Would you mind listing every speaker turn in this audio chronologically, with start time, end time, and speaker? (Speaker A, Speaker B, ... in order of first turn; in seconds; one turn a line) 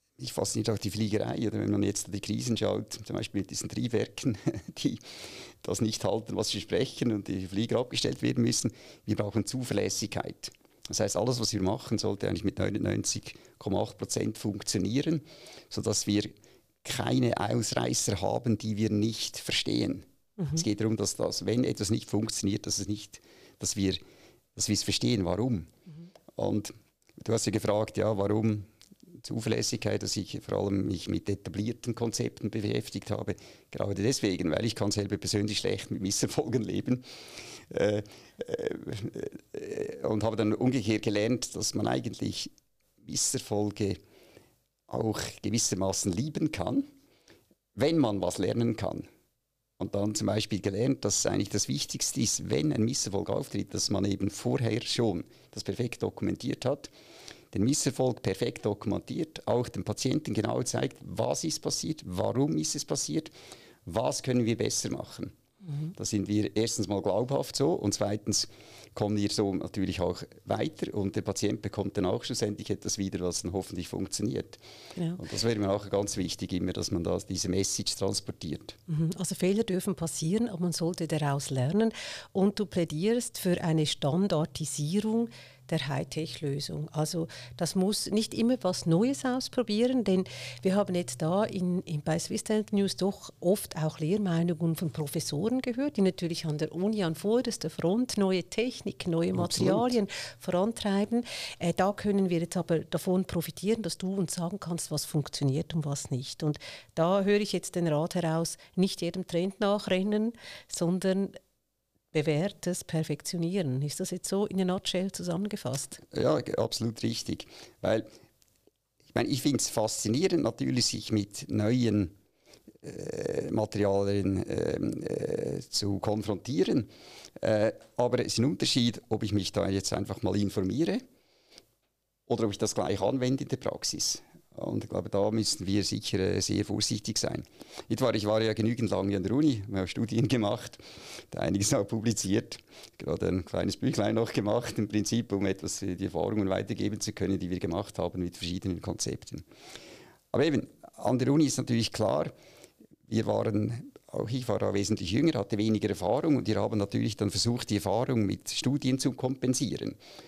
Speaker A: 0.2-24.0
Speaker A: 24.6-25.7
Speaker A: 26.4-28.7
Speaker A: 29.2-37.0
Speaker A: 37.7-42.5
Speaker A: 43.0-44.0
Speaker A: 44.9-46.9
Speaker A: 47.7-49.0
Speaker A: 49.8-56.9
Speaker A: 57.5-63.3
Speaker A: 63.9-65.3
Speaker B: 65.7-65.9
Speaker A: 66.0-74.6
Speaker A: 75.2-78.8
Speaker B: 78.9-111.4
Speaker A: 99.3-99.9
Speaker B: 112.1-116.0
Speaker A: 116.1-118.1
Speaker A: 119.1-122.1
Speaker A: 122.8-131.0
Speaker A: 132.3-149.4
Speaker A: 150.3-152.3
Speaker A: 153.1-160.0